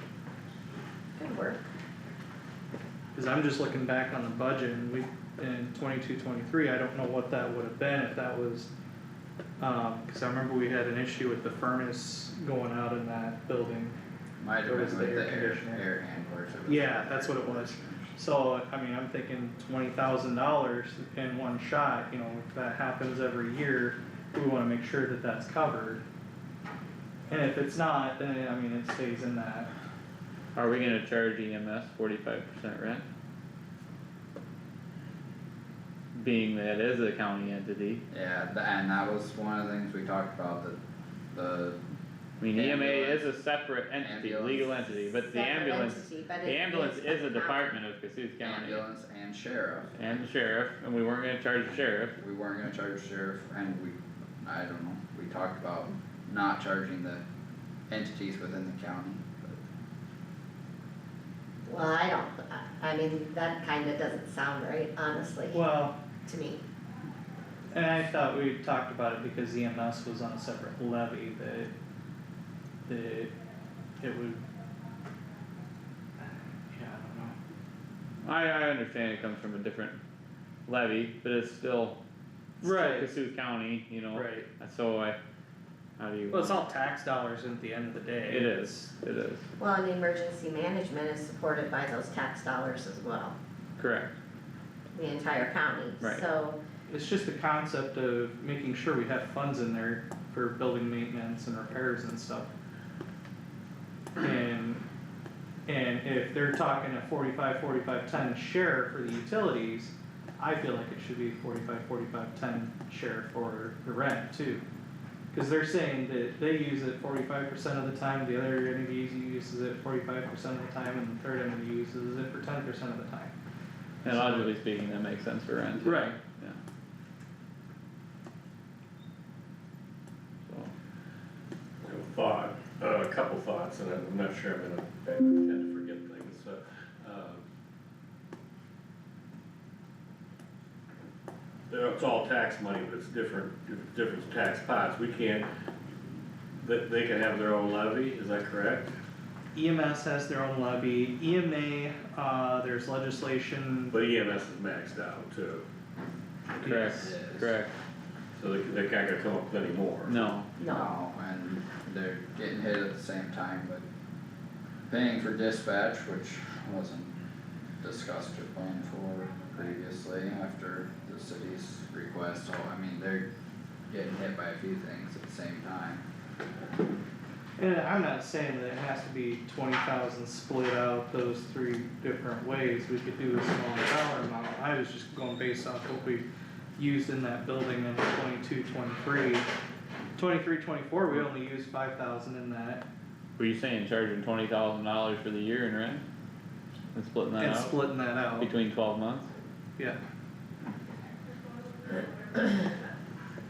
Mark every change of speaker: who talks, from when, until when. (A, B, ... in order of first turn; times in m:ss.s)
0:01.2-0:01.6 A
0:03.1-0:08.7 B
0:09.6-0:14.0 B
0:14.4-0:18.2 C
0:14.6-0:15.8 B
0:16.7-0:26.0 B
0:27.3-0:29.7 B
0:30.5-0:33.0 D
0:36.1-0:38.0 D
0:38.1-0:40.8 C
0:41.3-0:41.8 C
0:42.4-0:48.9 D
0:42.5-0:43.3 C
0:44.0-0:44.8 C
0:44.9-0:47.8 A
0:48.4-0:50.3 C
0:50.0-0:52.1 D
0:52.2-0:57.2 C
0:57.9-0:59.6 C
1:01.6-1:05.6 A
1:05.5-1:06.0 B
1:06.2-1:06.6 A
1:07.7-1:11.7 B
1:12.8-1:13.3 B
1:14.0-1:14.4 B
1:16.7-1:17.3 B
1:18.2-1:20.0 D
1:20.7-1:22.0 D
1:22.6-1:23.1 B
1:22.6-1:25.2 D
1:24.1-1:24.5 B
1:26.0-1:26.6 D
1:26.3-1:28.9 B
1:28.3-1:29.4 D
1:29.6-1:33.3 A
1:33.8-1:34.1 D
1:34.9-1:36.6 A
1:36.9-1:42.5 B
1:44.2-1:44.8 B
1:45.7-1:54.6 B
1:55.3-2:03.3 B
2:04.0-2:06.6 D
2:04.0-2:04.5 B
2:05.8-2:06.1 B
2:10.4-2:10.7 D
2:11.8-2:17.4 E
2:21.7-2:25.5 E
2:26.6-2:28.9 E
2:29.5-2:33.9 B
2:33.9-2:35.6 E
2:36.6-2:37.7 D
2:36.6-2:37.0 B
2:36.7-2:37.5 C
2:38.4-2:40.4 E
2:40.0-2:40.5 D
2:40.6-2:40.9 A
2:40.7-2:43.8 C
2:44.9-2:47.2 C
2:47.8-2:53.3 C
2:53.9-2:56.0 C
2:57.6-3:06.2 B
3:06.8-3:09.5 B
3:10.2-3:12.8 B
3:13.4-3:16.0 D
3:16.9-3:17.8 D
3:17.4-3:18.5 B
3:18.4-3:19.3 D